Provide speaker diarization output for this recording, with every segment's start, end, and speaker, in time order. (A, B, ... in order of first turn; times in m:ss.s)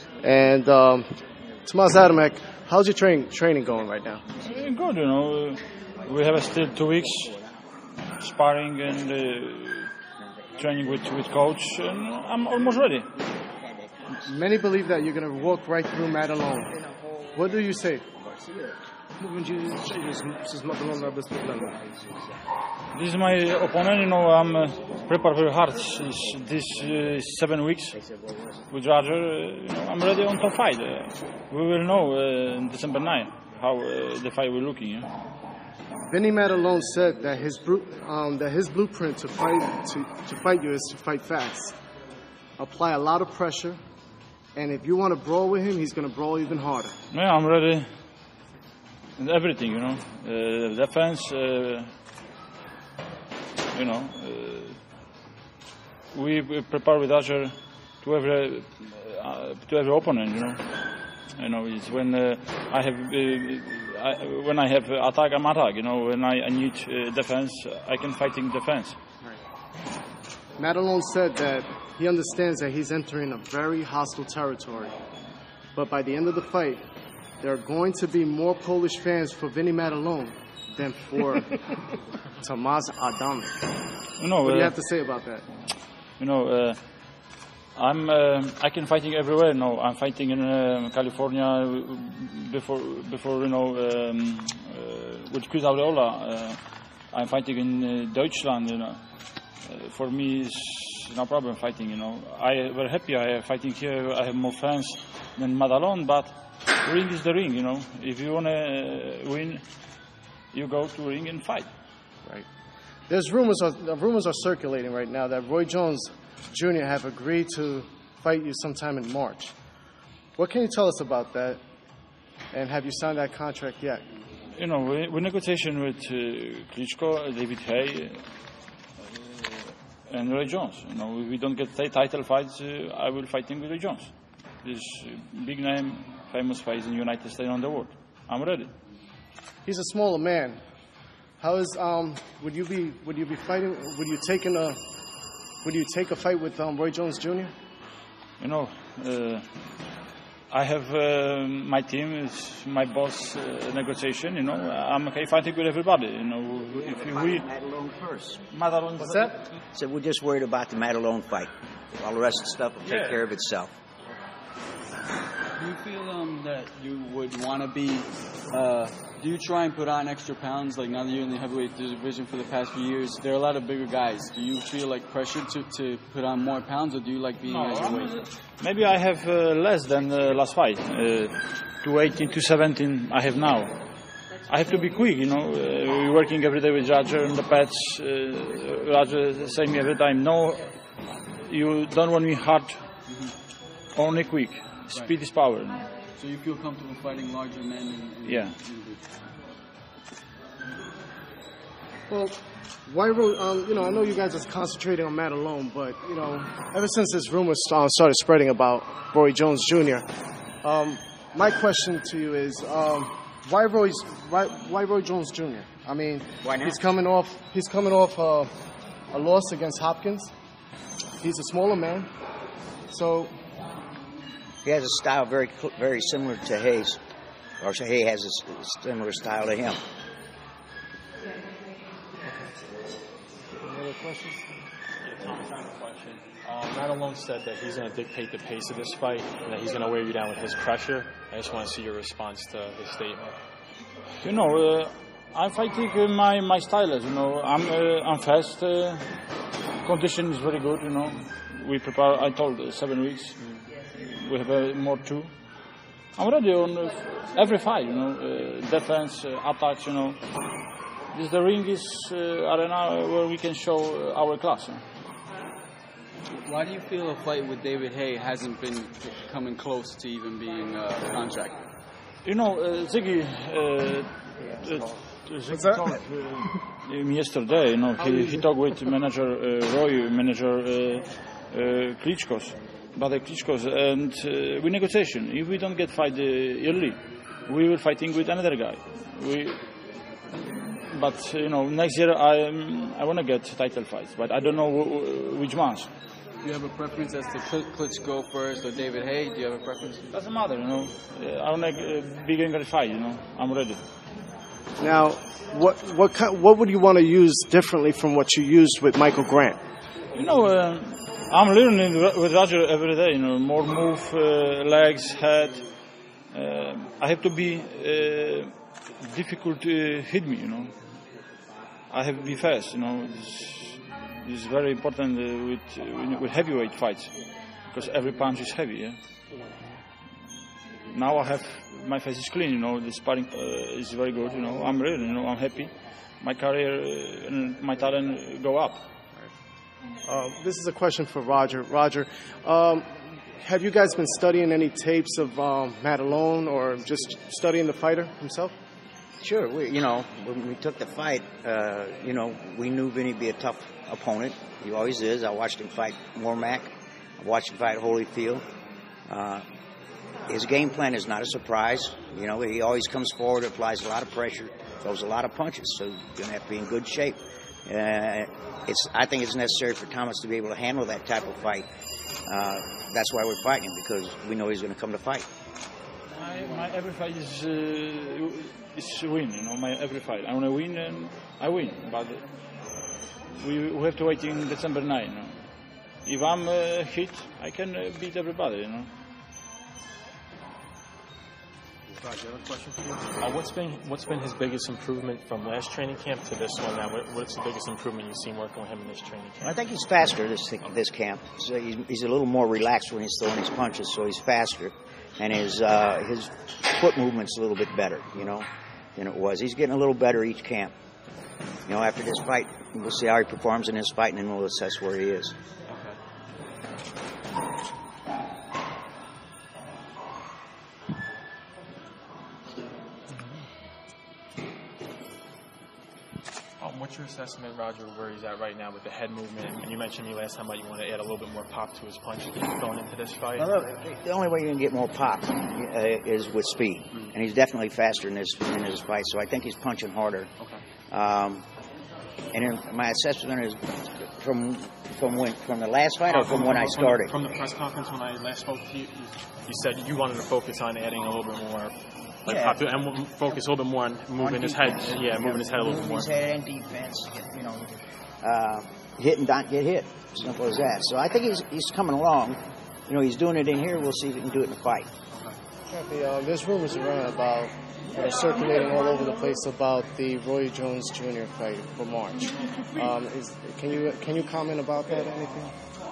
0:00.2-0:01.1 A
0:01.6-0:04.2 A
0:04.4-0:07.4 B
0:08.2-0:09.9 B
0:10.6-0:13.1 B
0:14.2-0:16.8 A
0:17.3-0:18.1 A
0:19.2-0:21.9 A
0:22.9-0:28.0 B
0:28.7-0:35.1 B
0:36.1-0:41.7 A
0:42.6-0:43.8 A
0:44.5-0:46.9 A
0:47.1-0:47.8 B
0:49.2-0:51.9 B
0:53.7-0:54.8 B
0:56.1-1:00.6 B
1:01.4-1:09.0 B
1:10.6-1:15.0 A
1:15.7-1:16.8 A
1:17.4-1:21.8 A
1:22.4-1:23.7 A
1:24.2-1:24.7 B
1:24.4-1:25.4 A
1:26.2-1:26.8 B
1:27.8-1:36.6 B
1:37.1-1:39.0 B
1:39.6-1:49.6 B
1:50.5-1:51.7 B
1:53.1-1:59.5 A
2:00.4-2:01.6 A
2:02.5-2:04.0 A
2:04.6-2:08.2 B
2:09.0-2:18.7 B
2:19.6-2:20.6 A
2:21.4-2:24.8 A
2:25.6-2:27.5 A
2:28.4-2:29.4 B
2:30.5-2:37.4 B
2:36.8-2:38.4 C
2:38.5-2:39.5 B
2:39.0-2:39.3 A
2:39.7-2:43.7 C
2:45.6-2:58.2 D
2:57.5-3:03.7 B
3:04.4-3:10.7 B
3:11.3-3:12.8 B
3:13.9-3:15.8 B
3:16.1-3:19.0 D
3:18.2-3:18.6 B
3:22.1-3:30.0 A
3:30.6-3:38.5 A
3:36.4-3:36.8 C
3:39.1-3:40.3 A
3:41.2-3:42.1 A
3:42.9-3:43.4 A
3:44.6-3:47.0 C
3:47.6-3:49.8 C
3:53.6-3:54.5 A
3:55.0-4:03.4 E
4:04.2-4:09.0 B
4:09.8-4:13.3 B
4:14.0-4:15.3 B
4:16.2-4:20.2 B
4:21.1-4:24.8 B
4:26.4-4:31.6 D
4:32.2-4:49.6 B
4:35.5-4:35.8 A
4:50.4-4:55.9 B
4:56.4-5:00.1 D
5:00.1-5:03.8 B
5:04.8-5:09.6 A
5:10.1-5:15.6 B
5:16.3-5:20.7 B
5:21.9-5:27.2 B
5:27.7-5:29.0 B
5:30.8-5:38.9 B
5:40.0-5:48.5 A
5:49.2-5:58.4 C
5:59.1-5:59.4 C
6:00.3-6:11.6 C
6:12.2-6:15.2 C
6:16.1-6:22.2 B
6:23.3-6:25.3 B
6:26.0-6:28.9 B
6:31.9-6:39.6 E
6:39.4-6:50.7 C
6:51.7-6:55.3 C
6:55.7-6:56.0 E
7:06.6-7:13.6 E
7:13.4-7:20.3 C
7:20.9-7:21.4 C
7:22.3-7:27.1 C
7:26.0-7:31.7 E
7:32.2-7:36.2 E
7:32.3-7:32.6 C
7:34.2-7:44.9 C
7:45.7-7:55.5 A